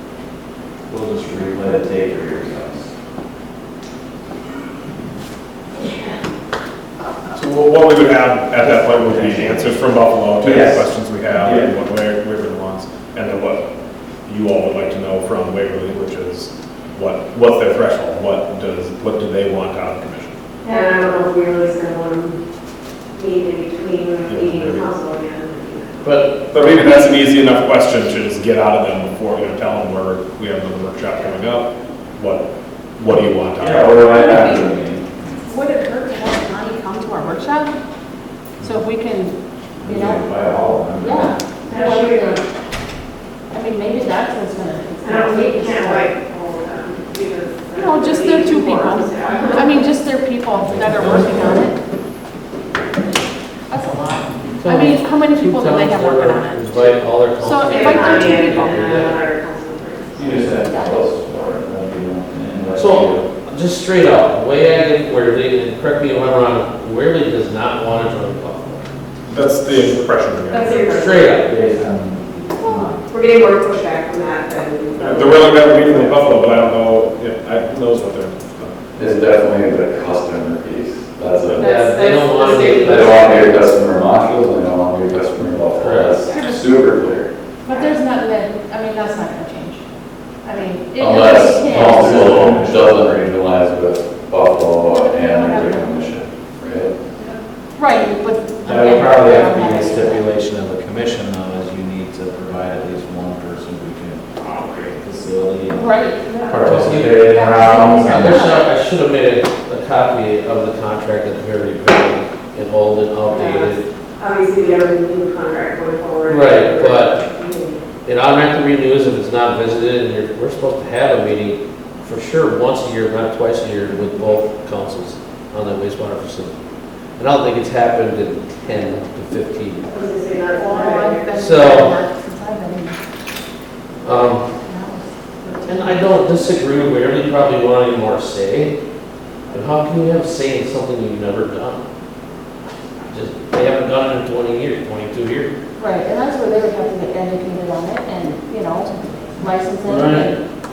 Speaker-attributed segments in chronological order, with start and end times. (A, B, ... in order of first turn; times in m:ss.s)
0:00.9-0:02.9 A
0:05.8-0:06.2 B
0:07.4-0:13.6 C
0:10.4-0:11.7 A
0:14.2-0:20.4 C
0:20.6-0:22.4 B
0:23.1-0:26.3 B
0:24.3-0:24.9 C
0:26.0-0:34.2 C
0:33.6-0:35.4 A
0:34.1-0:34.7 D
0:35.5-0:37.8 D
0:38.6-0:40.3 D
0:39.8-0:41.4 A
0:41.0-0:42.4 D
0:41.7-0:42.4 B
0:43.5-0:46.1 D
0:45.0-0:49.9 B
0:47.7-0:51.8 D
0:50.6-0:51.5 E
0:51.0-0:51.6 A
0:53.7-0:56.8 D
0:54.6-0:59.2 E
0:57.4-0:59.0 D
0:57.7-1:00.5 B
1:00.2-1:03.3 A
1:00.6-1:01.0 D
1:02.8-1:08.9 E
1:09.3-1:11.0 C
1:10.5-1:11.5 B
1:10.7-1:11.6 E
1:11.5-1:13.1 A
1:13.0-1:16.6 B
1:15.0-1:18.8 C
1:19.0-1:21.8 F
1:21.6-1:22.4 D
1:21.6-1:23.6 E
1:21.8-1:23.7 B
1:22.7-1:27.3 F
1:25.8-1:26.2 E
1:26.2-1:26.8 D
1:27.7-1:29.8 D
1:27.7-1:28.0 B
1:30.4-1:32.3 D
1:31.0-1:36.9 F
1:31.5-1:33.3 A
1:34.8-1:36.1 D
1:37.8-1:40.2 D
1:38.6-1:44.3 A
1:44.4-1:44.8 B
1:45.0-1:48.5 A
1:45.7-1:46.5 D
1:46.5-1:53.8 E
1:47.2-1:48.7 D
1:53.3-1:57.8 B
1:56.3-1:57.2 E
1:58.0-2:06.5 E
2:07.2-2:09.9 E
2:09.9-2:11.3 B
2:10.5-2:13.0 D
2:11.4-2:12.0 E
2:14.0-2:14.5 E
2:14.6-2:16.3 D
2:15.7-2:18.8 E
2:19.5-2:21.8 E
2:23.1-2:25.5 E
2:25.8-2:30.4 D
2:29.9-2:30.4 E